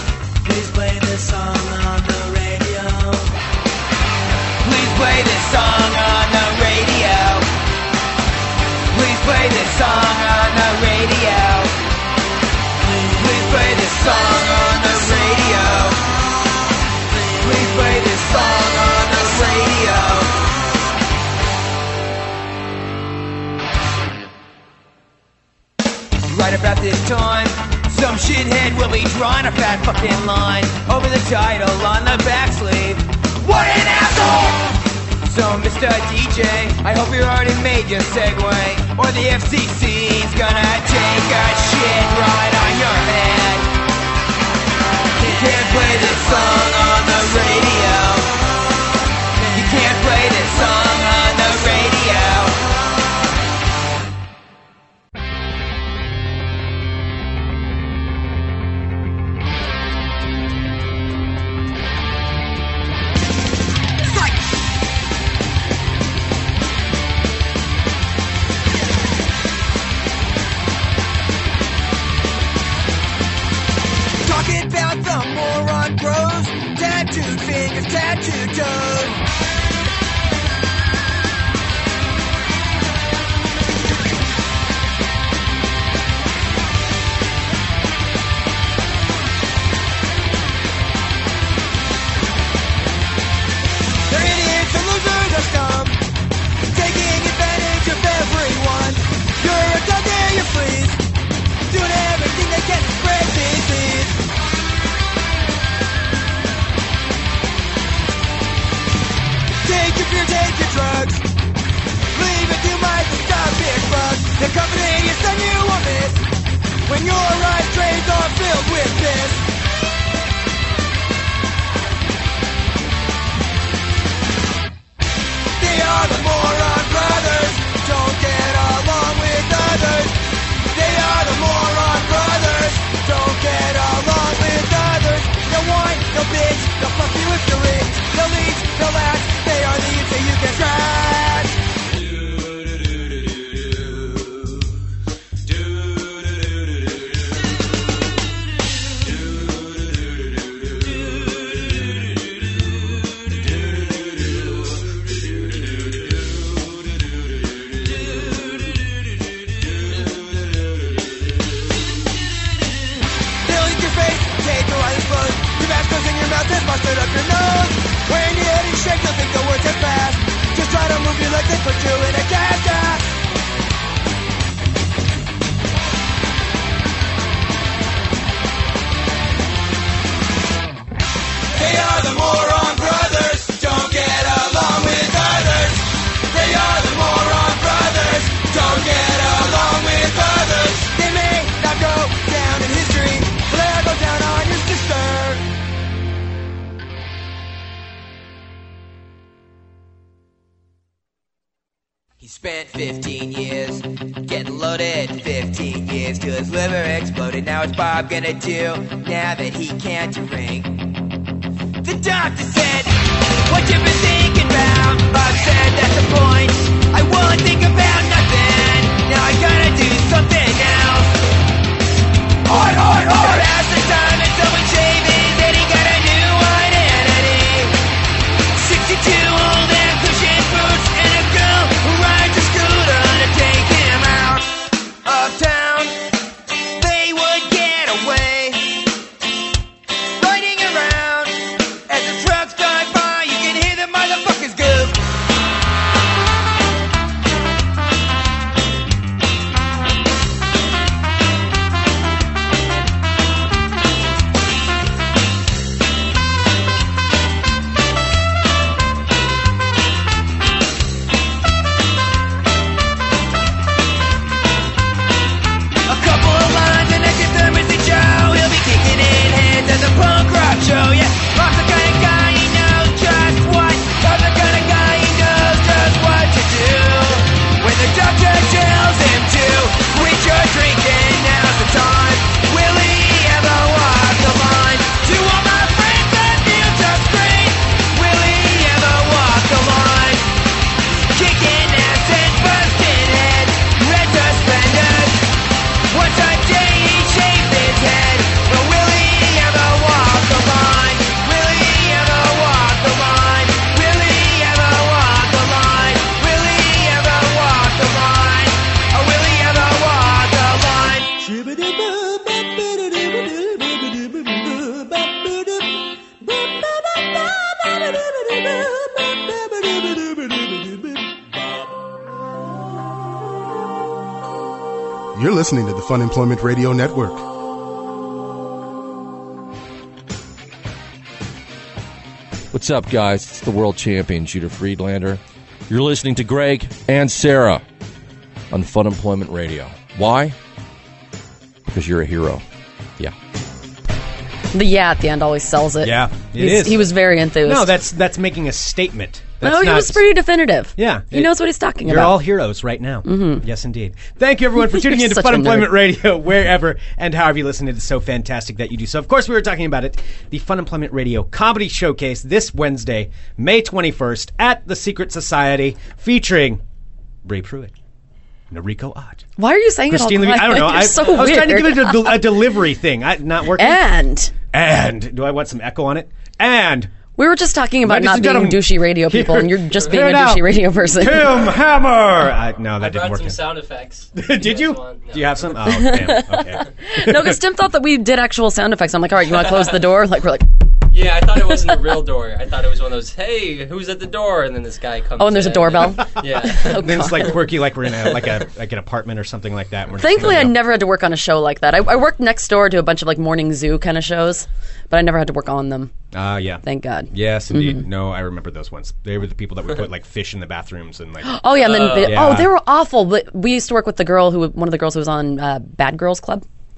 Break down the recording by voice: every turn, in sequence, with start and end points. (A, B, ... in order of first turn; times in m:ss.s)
0:00.4-0:03.3 A
0:04.6-0:07.5 A
0:08.9-0:11.7 A
0:13.0-0:16.0 A
0:17.4-0:20.4 A
0:26.3-0:43.7 A
0:45.2-0:48.4 A
0:49.5-0:52.6 A
1:14.2-1:19.2 A
1:34.1-1:36.0 A
1:36.7-1:41.0 A
1:41.7-1:44.2 A
1:49.6-1:51.3 A
1:52.1-1:56.2 A
1:56.9-1:59.4 A
2:05.6-2:10.2 A
2:10.7-2:21.6 A
2:43.4-2:53.1 A
3:01.5-3:15.4 A
3:22.2-3:30.9 A
3:31.8-3:41.2 A
3:42.5-3:47.8 A
3:48.5-3:56.0 A
3:56.8-3:58.7 A
4:00.2-4:05.0 A
4:25.9-4:50.3 A
4:50.9-4:55.3 A
4:55.9-5:11.2 A
5:11.5-5:12.0 B
5:25.2-5:27.2 C
5:32.5-5:37.6 B
5:38.5-5:40.4 B
5:41.7-5:42.4 B
5:44.5-5:47.7 D
5:45.8-5:46.9 E
5:47.4-5:50.0 E
5:49.4-5:52.2 D
5:50.8-5:51.3 E
5:51.8-6:06.6 E
5:53.0-5:53.4 D
5:54.6-5:55.7 D
6:07.2-6:07.7 E
6:08.5-6:09.2 E
6:09.4-6:12.4 D
6:09.9-6:13.8 E
6:13.6-6:14.3 D
6:14.5-6:16.9 E
6:17.2-6:21.5 D
6:17.8-6:23.4 E
6:22.8-6:25.5 F
6:24.2-6:27.4 E
6:25.7-6:30.5 D
6:29.3-6:29.8 F
6:30.9-6:36.9 F
6:35.2-6:37.4 D
6:36.4-6:40.6 E
6:40.0-6:45.9 D
6:46.1-6:51.4 E
6:46.6-6:47.8 D
6:51.2-6:56.4 D
6:51.5-6:52.3 F
6:52.0-6:52.5 E